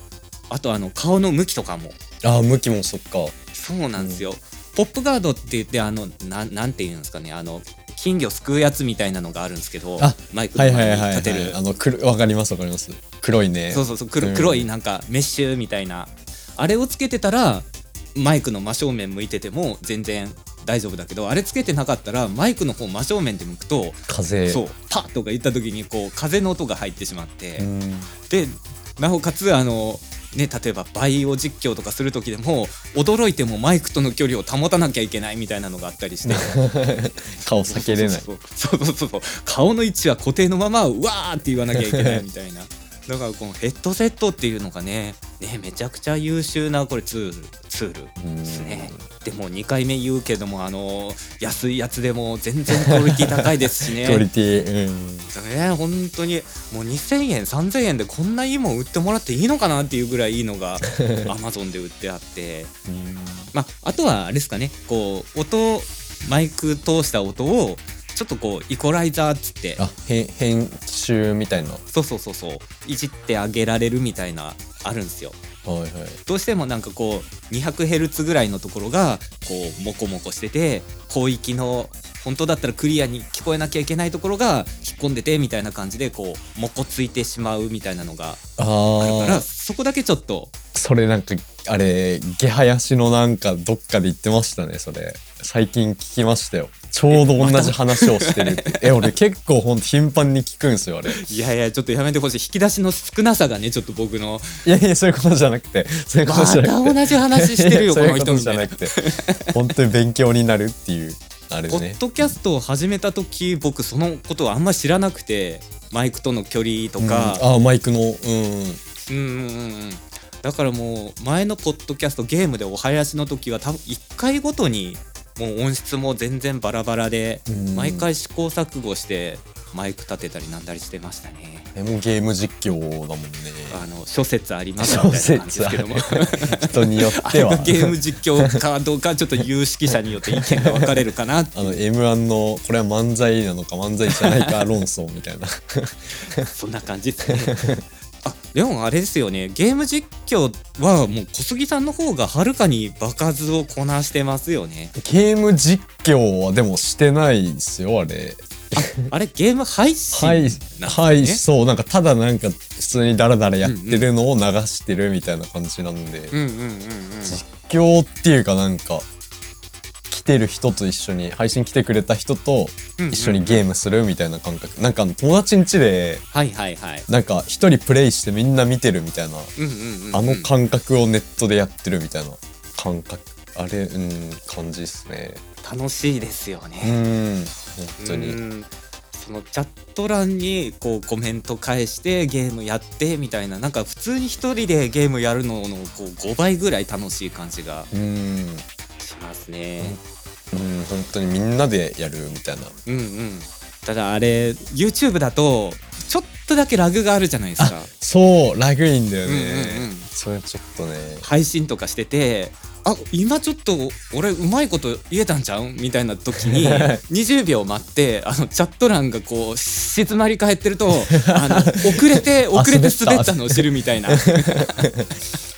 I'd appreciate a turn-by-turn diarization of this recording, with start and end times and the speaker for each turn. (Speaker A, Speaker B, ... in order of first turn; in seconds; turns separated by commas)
Speaker A: 0.5-2.0, Speaker B: 2.2-3.3, Speaker A: 3.5-11.6, Speaker B: 4.0-4.2, Speaker B: 10.0-14.7, Speaker A: 13.7-27.7, Speaker B: 24.1-24.6, Speaker B: 27.6-28.1, Speaker A: 28.2-36.6, Speaker B: 36.2-38.3, Speaker A: 37.6-54.2, Speaker B: 41.7-42.2, Speaker B: 48.2-49.0, Speaker B: 52.9-55.3, Speaker A: 55.3-62.7, Speaker B: 60.9-61.3, Speaker B: 62.9-63.5, Speaker A: 63.5-69.8, Speaker B: 69.8-71.8, Speaker A: 71.9-75.4, Speaker B: 75.6-76.2, Speaker A: 76.2-88.4, Speaker B: 88.6-89.5, Speaker A: 89.0-90.5, Speaker B: 90.7-101.3, Speaker A: 97.1-99.1, Speaker A: 101.1-104.6, Speaker B: 104.6-109.0, Speaker A: 106.2-109.5, Speaker B: 109.5-112.3, Speaker A: 111.7-117.4, Speaker B: 117.0-118.8, Speaker A: 119.1-131.7, Speaker B: 127.5-128.1, Speaker B: 131.7-133.8, Speaker A: 133.7-141.8, Speaker B: 134.8-138.5, Speaker B: 140.3-140.9, Speaker B: 141.5-146.5, Speaker A: 144.1-144.6, Speaker A: 146.5-147.6, Speaker B: 147.3-147.8, Speaker A: 148.2-154.9, Speaker B: 154.9-159.1, Speaker A: 158.7-161.4, Speaker B: 160.1-166.3, Speaker A: 163.6-164.1, Speaker A: 166.3-167.4, Speaker B: 167.2-169.0, Speaker B: 170.1-176.2, Speaker A: 173.0-173.6, Speaker A: 176.3-177.1, Speaker B: 177.1-179.5, Speaker A: 179.6-180.5, Speaker B: 180.1-185.4, Speaker A: 185.6-187.0, Speaker B: 186.8-188.4, Speaker A: 188.0-197.9, Speaker B: 197.9-198.6, Speaker A: 199.0-200.0, Speaker B: 200.5-202.7, Speaker A: 202.8-207.9, Speaker B: 207.6-211.3, Speaker A: 209.2-210.1, Speaker A: 211.2-224.9, Speaker B: 216.4-217.0, Speaker B: 220.9-225.1